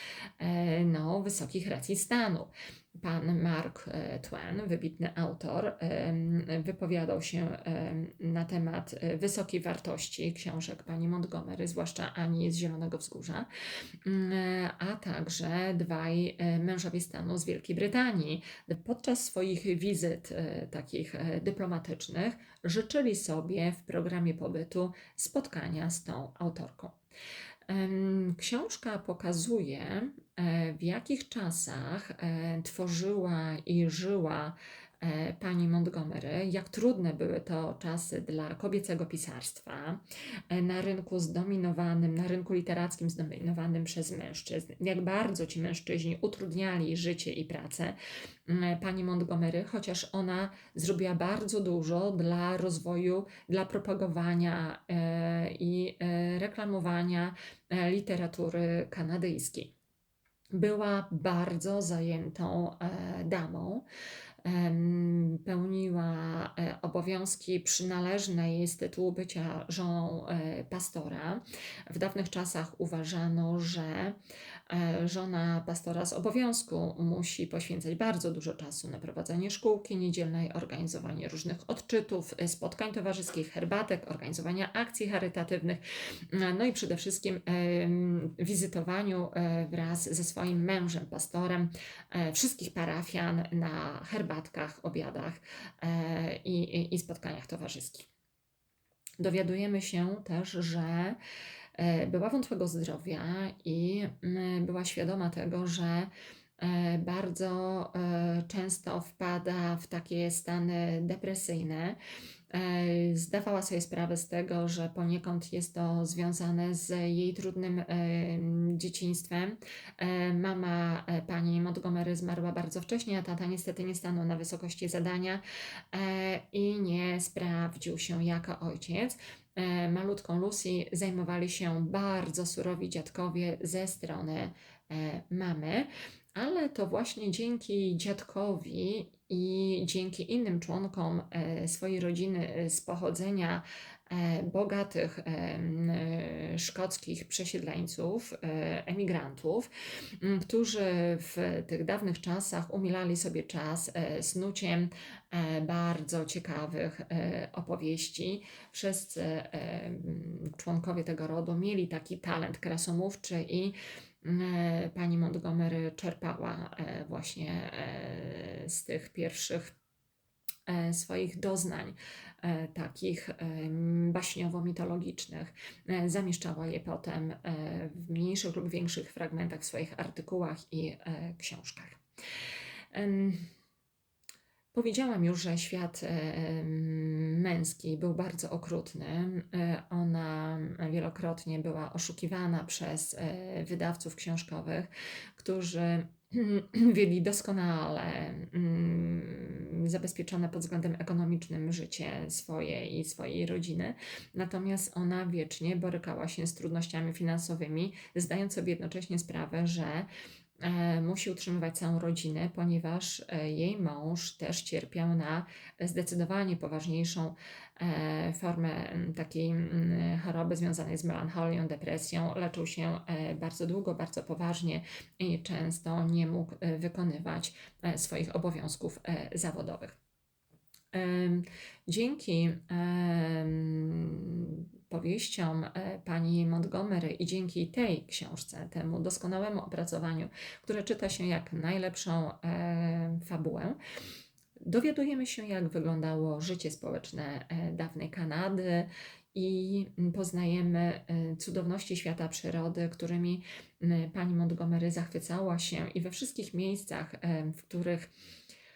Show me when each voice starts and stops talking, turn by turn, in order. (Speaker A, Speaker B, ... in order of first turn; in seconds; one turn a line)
Speaker A: 0.4-13.5
Speaker A: 14.0-27.0
Speaker A: 27.7-59.7
Speaker A: 60.5-63.9
Speaker A: 64.4-74.2
Speaker A: 74.7-98.1
Speaker A: 99.2-101.2
Speaker A: 101.8-112.0
Speaker A: 112.5-169.7
Speaker A: 170.7-182.0
Speaker A: 182.9-183.5
Speaker A: 184.7-210.1
Speaker A: 210.6-230.0
Speaker A: 230.9-243.8
Speaker A: 244.6-258.1